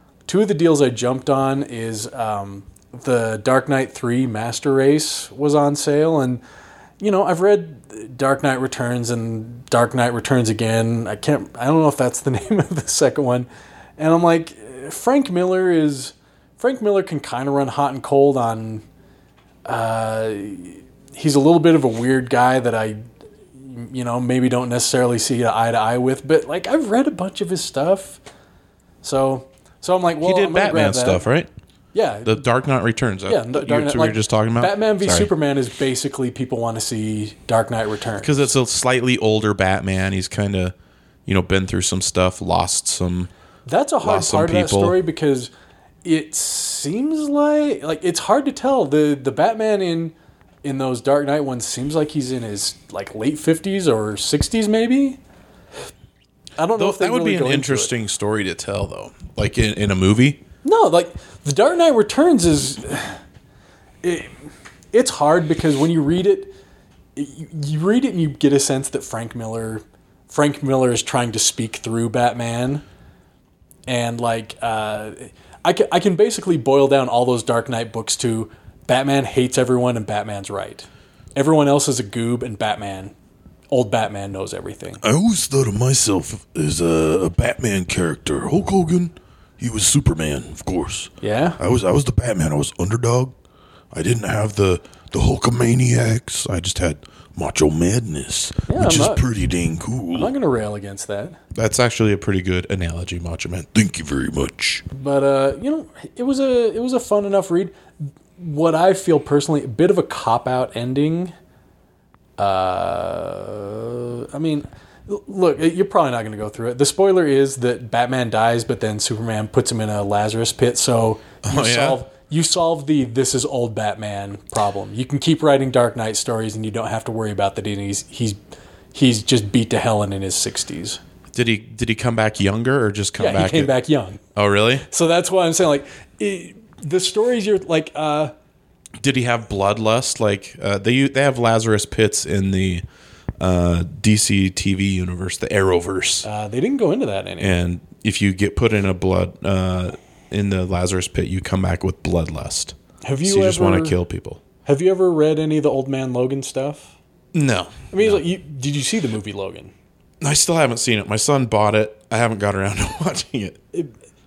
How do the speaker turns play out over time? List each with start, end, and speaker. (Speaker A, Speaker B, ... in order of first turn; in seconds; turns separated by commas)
Speaker A: 0.3-6.4, Speaker A: 7.0-18.8, Speaker A: 19.6-23.0, Speaker A: 23.6-28.2, Speaker A: 29.0-31.2, Speaker B: 30.2-31.5, Speaker A: 31.9-32.4, Speaker B: 32.2-35.3, Speaker A: 33.2-38.5, Speaker B: 38.2-40.7, Speaker B: 41.2-43.3, Speaker A: 43.7-45.5, Speaker B: 44.0-45.0, Speaker A: 46.0-55.2, Speaker A: 56.6-57.9, Speaker B: 56.8-60.4, Speaker A: 60.6-63.2, Speaker A: 64.0-64.3, Speaker A: 64.9-66.5, Speaker A: 67.1-72.8, Speaker A: 73.9-83.1, Speaker A: 83.7-85.0, Speaker C: 85.0-93.3, Speaker A: 91.2-91.6, Speaker C: 93.9-100.3, Speaker A: 98.7-99.2, Speaker A: 100.1-101.4, Speaker B: 101.5-103.7, Speaker C: 103.7-104.8, Speaker A: 104.9-107.8, Speaker A: 108.4-111.3, Speaker A: 112.4-128.4, Speaker B: 121.4-122.0, Speaker A: 128.9-131.0, Speaker B: 131.3-133.7, Speaker A: 133.2-134.2, Speaker B: 134.3-134.8, Speaker A: 134.9-138.3, Speaker B: 139.0-142.8, Speaker B: 143.4-146.2, Speaker A: 146.2-147.6, Speaker B: 147.4-154.4, Speaker A: 153.0-154.0, Speaker A: 154.6-156.9, Speaker B: 157.3-158.2, Speaker A: 157.9-159.7, Speaker B: 160.2-163.6